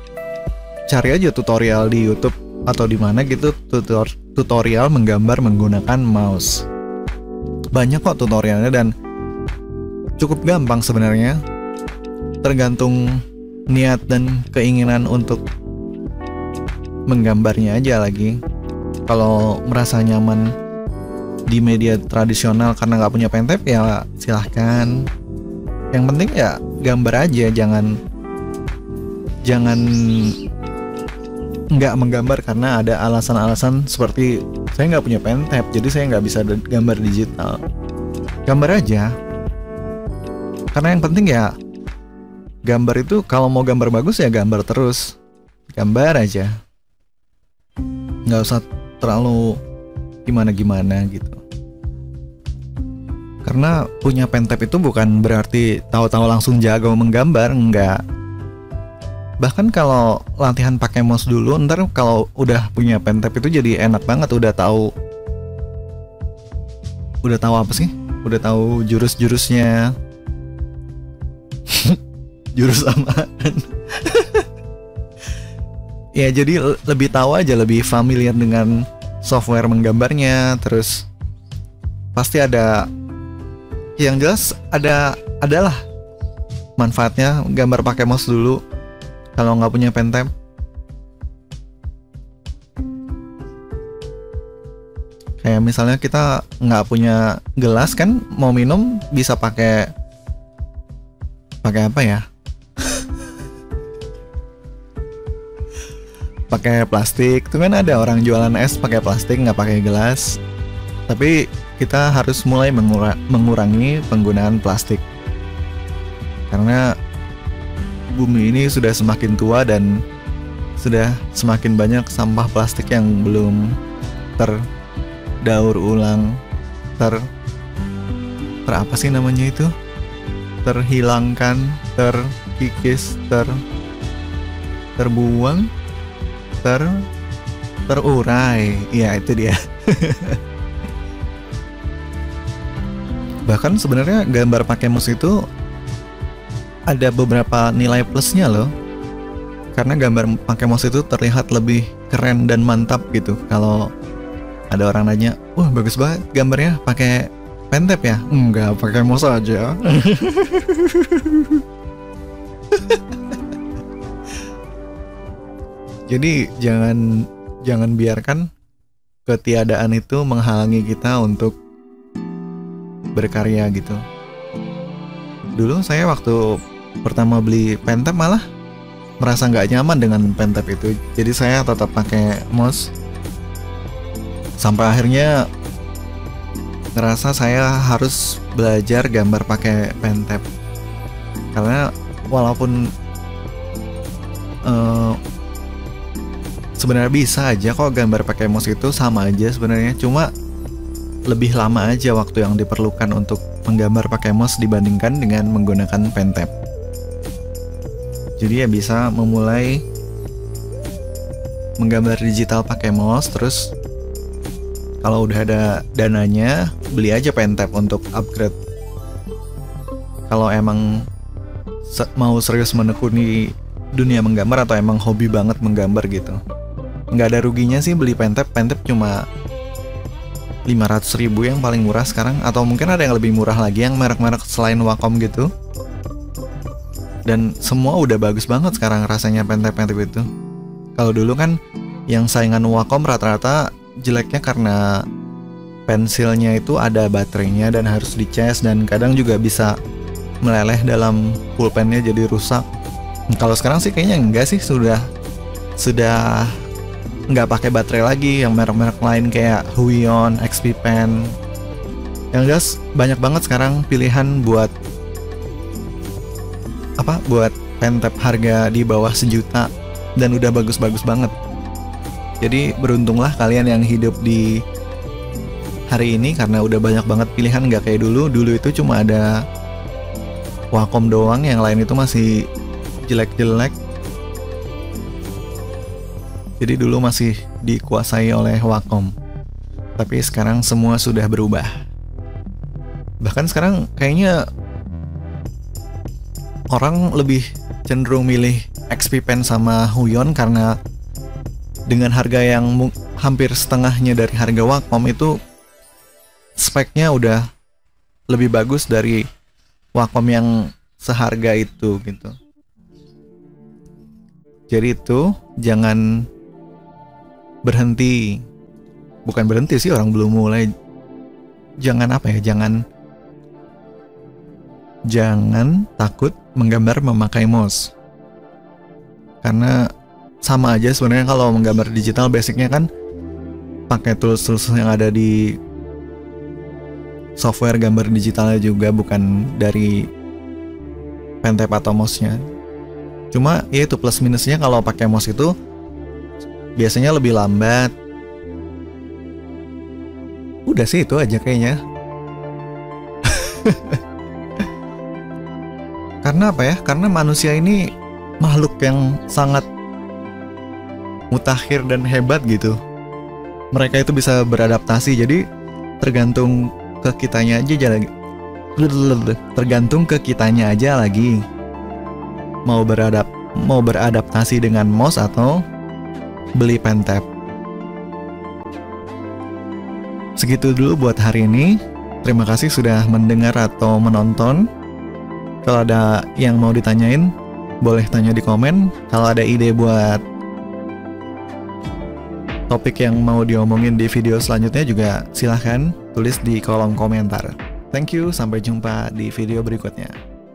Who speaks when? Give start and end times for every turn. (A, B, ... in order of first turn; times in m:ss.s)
0:00.9-0:06.6 A
0:07.7-0:08.9 A
0:10.2-0:11.4 A
0:12.4-0:15.4 A
0:17.1-0:18.4 A
0:19.1-0:20.5 A
0:21.5-0:25.1 A
0:25.9-0:28.0 A
0:29.4-0:30.4 A
0:31.7-0:37.6 A
0:38.4-0:39.2 A
0:40.7-0:41.5 A
0:42.6-0:45.2 A
0:45.7-0:46.5 A
0:48.2-0:49.6 A
0:50.2-0:51.4 A
0:53.4-0:58.0 A
0:59.4-1:04.9 A
1:07.2-1:09.9 A
1:11.7-1:12.0 A
1:12.5-1:14.4 A
1:16.2-1:21.1 A
1:22.1-1:22.9 A
1:24.0-1:25.8 A
1:26.8-1:28.6 A
1:29.4-1:30.3 A
1:35.4-1:39.9 A
1:41.6-1:42.2 A
1:46.5-1:50.4 A
1:51.1-1:55.0 A
1:56.5-1:57.0 A
1:58.1-2:00.0 A
2:00.8-2:03.8 A
2:04.4-2:04.6 A
2:05.4-2:06.4 A
2:07.0-2:07.3 A
2:08.6-2:09.7 A
2:10.6-2:13.6 A
2:15.0-2:15.7 A
2:16.6-2:17.0 A
2:17.9-2:20.4 A
2:23.4-2:25.4 A
2:26.9-2:28.7 A
2:29.7-2:33.9 A
2:34.7-2:41.6 A
2:42.7-2:43.4 A
2:46.1-2:48.5 A
2:49.2-2:51.5 A
2:53.1-2:54.0 A
2:55.6-2:58.4 A
2:59.2-3:02.9 A
3:04.6-3:05.4 A
3:06.9-3:10.4 A
3:11.5-3:12.8 A
3:14.6-3:15.2 A
3:16.8-3:20.3 A
3:21.3-3:26.5 A
3:28.4-3:29.8 A
3:31.8-3:33.7 A
3:35.0-3:38.6 A
3:40.3-3:41.0 A
3:41.9-3:46.4 A
3:47.1-3:49.2 A
3:50.6-3:55.5 A
3:57.2-4:00.2 A
4:01.0-4:01.6 A
4:02.1-4:05.0 A
4:05.9-4:09.7 A
4:10.4-4:12.6 A
4:13.3-4:15.0 A
4:15.8-4:16.6 A
4:17.3-4:21.3 A
4:22.3-4:24.7 A
4:27.0-4:31.3 A
4:32.4-4:34.6 A
4:35.9-4:39.4 A
4:40.7-4:42.4 A
4:43.0-4:43.8 A
4:46.6-4:49.1 A
4:50.0-4:51.8 A
4:53.2-4:54.4 A
4:56.7-5:00.7 A
5:01.9-5:05.4 A
5:06.6-5:07.4 A
5:08.3-5:09.2 A
5:09.9-5:12.3 A
5:14.7-5:16.3 A
5:17.6-5:18.4 A
5:19.2-5:20.7 A
5:21.8-5:22.8 A
5:25.1-5:27.9 A
5:29.4-5:29.8 A
5:30.4-5:32.9 A
5:33.9-5:35.6 A
5:37.4-5:40.1 A
5:41.4-5:42.4 A
5:43.3-5:45.5 A
5:46.8-5:47.9 A
5:50.6-5:51.8 A
5:53.2-5:54.0 A
5:56.2-5:59.6 A
6:01.3-6:02.8 A
6:03.7-6:05.4 A
6:06.0-6:08.1 A
6:08.8-6:11.4 A
6:12.6-6:15.6 A
6:16.6-6:17.2 A
6:20.4-6:24.7 A
6:25.6-6:30.2 A
6:32.7-6:40.2 A